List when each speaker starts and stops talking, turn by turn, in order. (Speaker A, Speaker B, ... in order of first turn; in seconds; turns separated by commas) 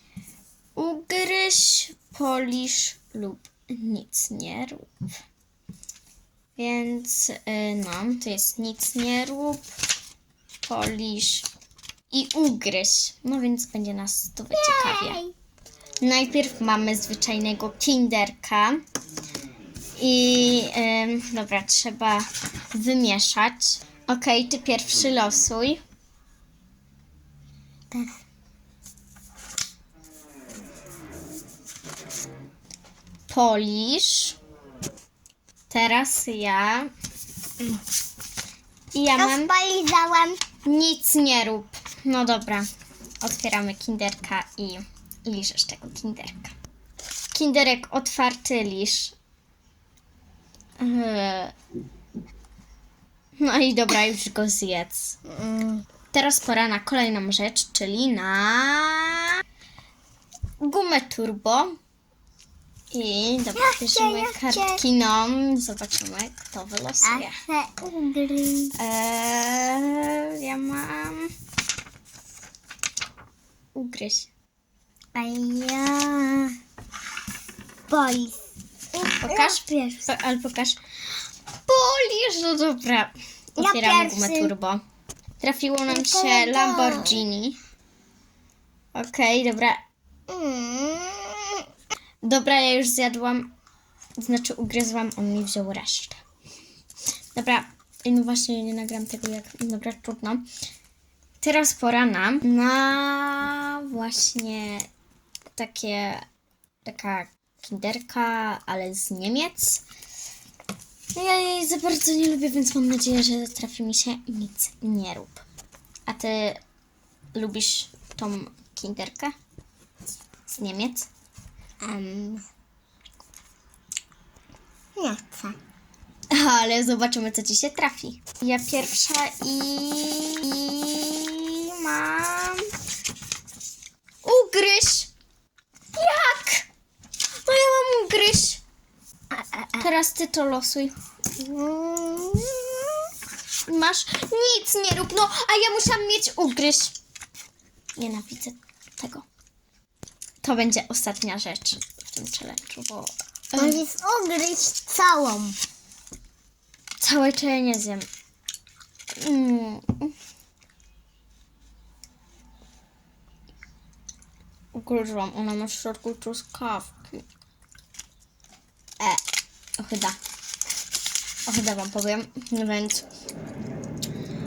Speaker A: 0.8-4.9, Speaker A: 6.6-9.7, Speaker A: 10.7-11.5, Speaker A: 12.1-15.2, Speaker B: 14.5-15.3, Speaker A: 16.0-18.8, Speaker A: 20.0-25.8, Speaker A: 33.3-34.4, Speaker A: 35.7-36.9, Speaker A: 38.9-39.5, Speaker B: 39.1-40.4, Speaker A: 40.6-42.7, Speaker A: 43.2-46.5, Speaker A: 47.3-49.1, Speaker A: 50.8-51.5, Speaker A: 53.4-55.2, Speaker B: 55.2-55.8, Speaker A: 56.1-59.3, Speaker A: 60.6-61.8, Speaker A: 62.9-67.4, Speaker B: 63.5-64.8, Speaker B: 67.0-68.7, Speaker A: 68.7-71.3, Speaker A: 73.7-74.3, Speaker B: 75.1-76.5, Speaker B: 77.9-78.4, Speaker B: 78.9-80.0, Speaker A: 79.2-80.8, Speaker A: 81.7-84.8, Speaker B: 83.6-84.5, Speaker A: 85.4-87.6, Speaker B: 85.9-87.2, Speaker A: 88.9-89.8, Speaker B: 90.3-91.6, Speaker A: 92.2-93.5, Speaker A: 94.2-96.2, Speaker A: 97.3-100.5, Speaker A: 101.4-104.9, Speaker A: 105.5-106.2, Speaker A: 106.8-109.8, Speaker A: 111.1-115.4, Speaker A: 116.1-116.6, Speaker A: 117.3-119.3, Speaker A: 120.5-121.1, Speaker B: 121.8-122.4, Speaker B: 125.0-125.6, Speaker A: 126.3-132.7, Speaker A: 134.2-135.1, Speaker A: 135.9-136.7, Speaker A: 137.4-138.6, Speaker B: 139.3-139.9, Speaker A: 139.8-140.9, Speaker B: 141.4-143.1, Speaker A: 143.7-146.9, Speaker A: 147.9-149.2, Speaker A: 150.4-153.8, Speaker B: 153.5-155.6, Speaker A: 157.0-158.1, Speaker A: 159.2-160.1, Speaker A: 164.7-167.2, Speaker A: 169.8-170.2, Speaker A: 171.4-173.1